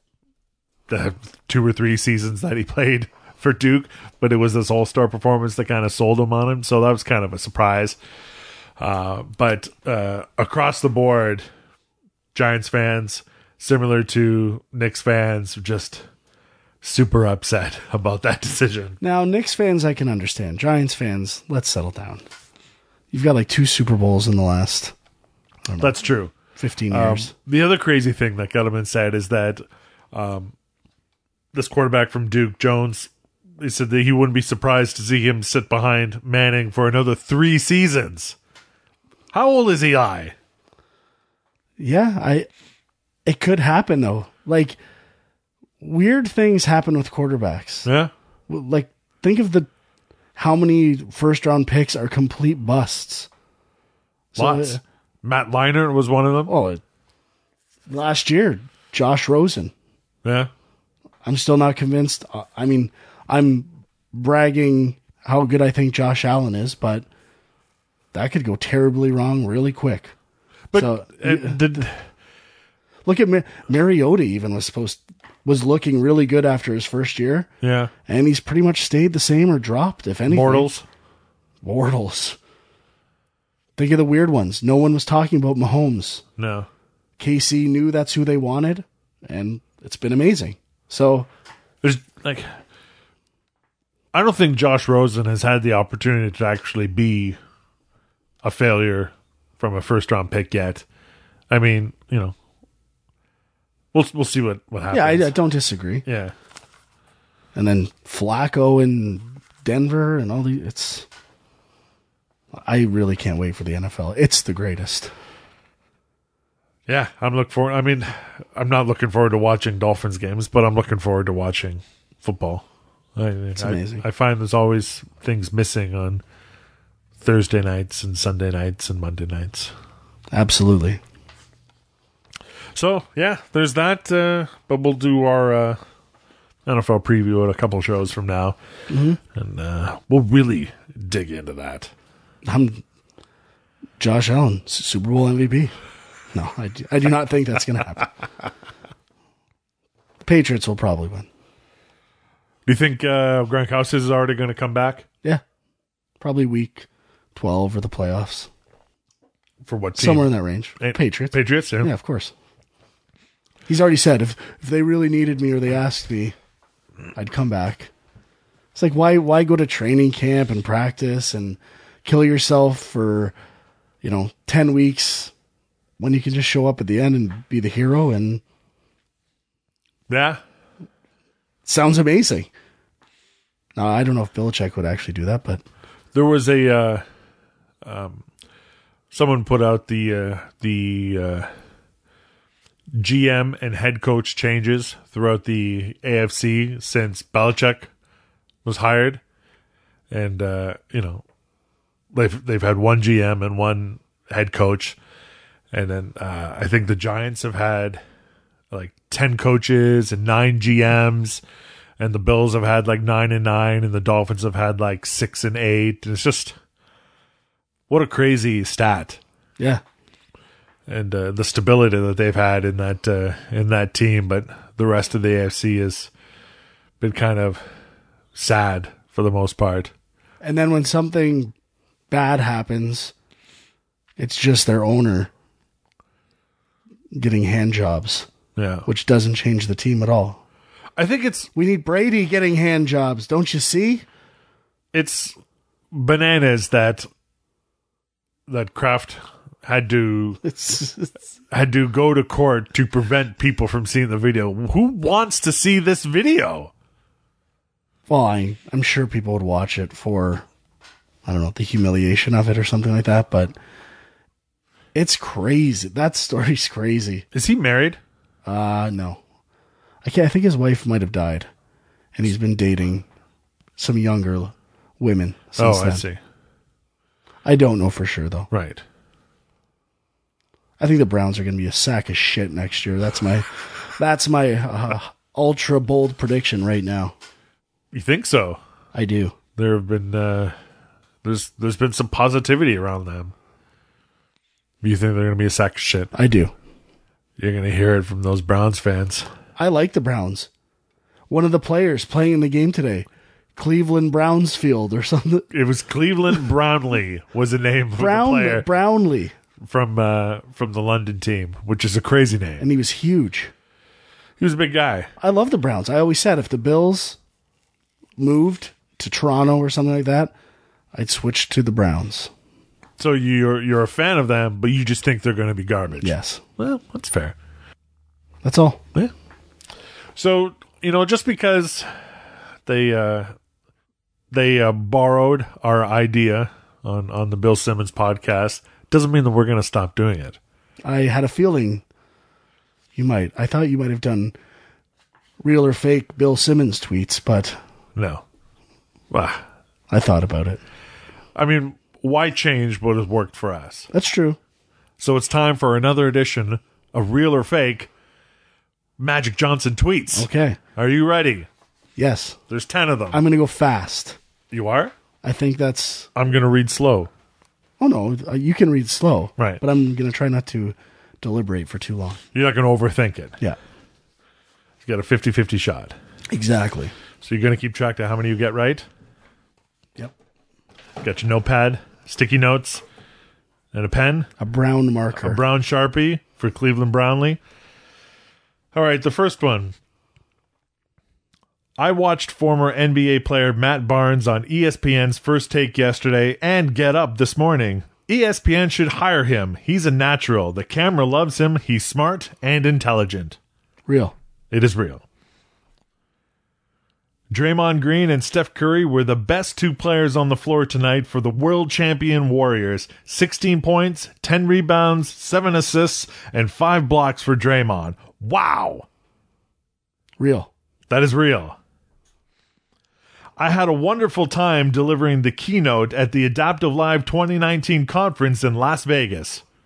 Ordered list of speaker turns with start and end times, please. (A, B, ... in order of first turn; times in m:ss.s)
0:00.9-0:08.0 A
0:08.8-0:11.4 A
0:12.4-0:16.0 A
0:16.8-0:19.0 A
0:19.0-0:22.2 B
0:23.1-0:24.9 B
0:25.7-0:26.0 B
0:25.8-0:26.4 A
0:26.5-0:27.3 B
0:26.9-0:30.5 A
0:31.5-0:38.4 A
0:39.3-0:40.4 A
0:41.8-0:42.5 B
0:43.3-0:44.8 B
0:45.8-0:47.9 B
0:47.8-0:48.1 A
0:48.5-0:49.7 B
0:50.4-0:53.3 B
0:54.3-0:54.8 B
0:54.4-0:56.5 A
0:56.5-0:56.8 B
0:57.9-0:59.7 B
1:00.2-1:00.5 A
1:01.2-1:07.1 B
1:08.1-1:10.2 B
1:10.7-1:12.0 A
1:10.7-1:11.9 B
1:13.0-1:17.5 B
1:17.6-1:17.9 A
1:18.1-1:20.7 B
1:20.3-1:20.8 A
1:21.6-1:22.4 B
1:23.8-1:26.2 B
1:26.4-1:26.7 A
1:27.2-1:31.3 B
1:31.8-1:32.5 A
1:34.1-1:37.4 A
1:38.4-1:40.8 A
1:41.5-1:42.4 A
1:43.9-1:45.4 A
1:44.9-1:46.0 B
1:46.1-1:46.3 A
1:47.6-1:51.1 B
1:52.5-1:55.1 B
1:56.9-2:02.6 A
2:03.2-2:06.2 A
2:03.6-2:04.0 B
2:07.2-2:09.7 A
2:10.3-2:11.0 B
2:12.8-2:15.8 A
2:16.7-2:18.6 A
2:18.9-2:19.2 B
2:19.3-2:21.9 A
2:22.4-2:22.8 B
2:24.0-2:25.7 B
2:26.3-2:28.1 B
2:30.2-2:31.3 B
2:32.7-2:35.0 A
2:36.2-2:38.5 B
2:39.6-2:41.9 A
2:40.0-2:42.3 B
2:43.7-2:46.4 B
2:47.2-2:47.9 B
2:48.8-2:53.4 B
2:54.0-2:55.3 B
2:56.0-2:58.4 B
3:00.1-3:00.4 A
3:01.6-3:02.5 B
3:03.8-3:05.6 B
3:06.1-3:07.0 A
3:07.8-3:08.3 A
3:09.1-3:11.5 A
3:13.0-3:17.9 A
3:18.6-3:19.2 A
3:20.1-3:21.2 A
3:22.1-3:25.0 A
3:25.7-3:28.0 A
3:28.7-3:31.4 A
3:32.0-3:36.6 A
3:37.9-3:39.2 A
3:40.9-3:46.1 A
3:47.0-3:47.6 A
3:48.3-3:49.9 A
3:50.4-3:51.5 B
3:52.1-3:53.1 B
3:54.2-3:55.3 B
3:57.1-3:58.3 B
3:58.6-3:58.9 A
3:58.9-4:00.4 B
4:01.0-4:01.5 A
4:01.6-4:04.1 B
4:04.9-4:05.4 A
4:05.9-4:07.1 A
4:08.5-4:10.4 A
4:10.4-4:11.2 B
4:11.5-4:16.7 A
4:18.1-4:20.5 B
4:21.2-4:23.6 B
4:25.0-4:27.2 B
4:27.3-4:28.0 A
4:28.4-4:29.2 B
4:30.0-4:31.5 B
4:32.2-4:33.1 B
4:33.8-4:36.0 B
4:35.6-4:36.2 A
4:37.4-4:38.5 B
4:38.5-4:38.8 A
4:40.8-4:47.2 B
4:47.9-4:48.6 A
4:48.9-4:49.4 B
4:49.6-4:50.5 A
4:51.2-4:53.4 A
4:54.8-4:56.1 A
4:56.1-4:56.5 B
4:57.4-4:59.3 A
4:59.6-5:00.5 B
5:01.3-5:05.5 B
5:05.5-5:08.7 A
5:08.0-5:09.3 B
5:09.6-5:12.7 A
5:12.6-5:13.5 B
5:14.4-5:15.1 A
5:15.2-5:17.2 B
5:18.2-5:20.3 B
5:20.9-5:22.3 B
5:23.0-5:27.4 A
5:26.0-5:26.4 B
5:28.4-5:28.8 B
5:30.2-5:31.9 A
5:32.7-5:33.3 A
5:34.3-5:40.4 A
5:40.8-5:41.8 B
5:43.0-5:44.4 B
5:45.4-5:47.6 B
5:48.0-5:48.2 A
5:49.1-5:49.4 A
5:49.9-5:50.6 B
5:51.4-5:53.9 A
5:53.9-5:54.4 B
5:55.0-5:57.9 A
5:59.0-6:01.5 A
6:00.1-6:00.6 B
6:02.0-6:02.4 B
6:02.5-6:03.2 A
6:03.1-6:04.2 B
6:04.5-6:04.9 A
6:05.2-6:06.1 B
6:06.2-6:07.1 A
6:07.8-6:12.2 B
6:12.3-6:13.4 A
6:14.8-6:16.0 A
6:16.3-6:16.9 B
6:17.2-6:18.9 A
6:21.0-6:22.8 A
6:23.7-6:24.3 A
6:24.4-6:25.4 B
6:25.2-6:27.4 A
6:28.7-6:29.8 A
6:31.8-6:43.4 A
6:43.9-6:44.2 B
6:44.5-6:45.0 A
6:47.3-6:58.9 A
7:00.2-7:00.5 B
7:00.9-7:01.6 A
7:03.4-7:09.4 A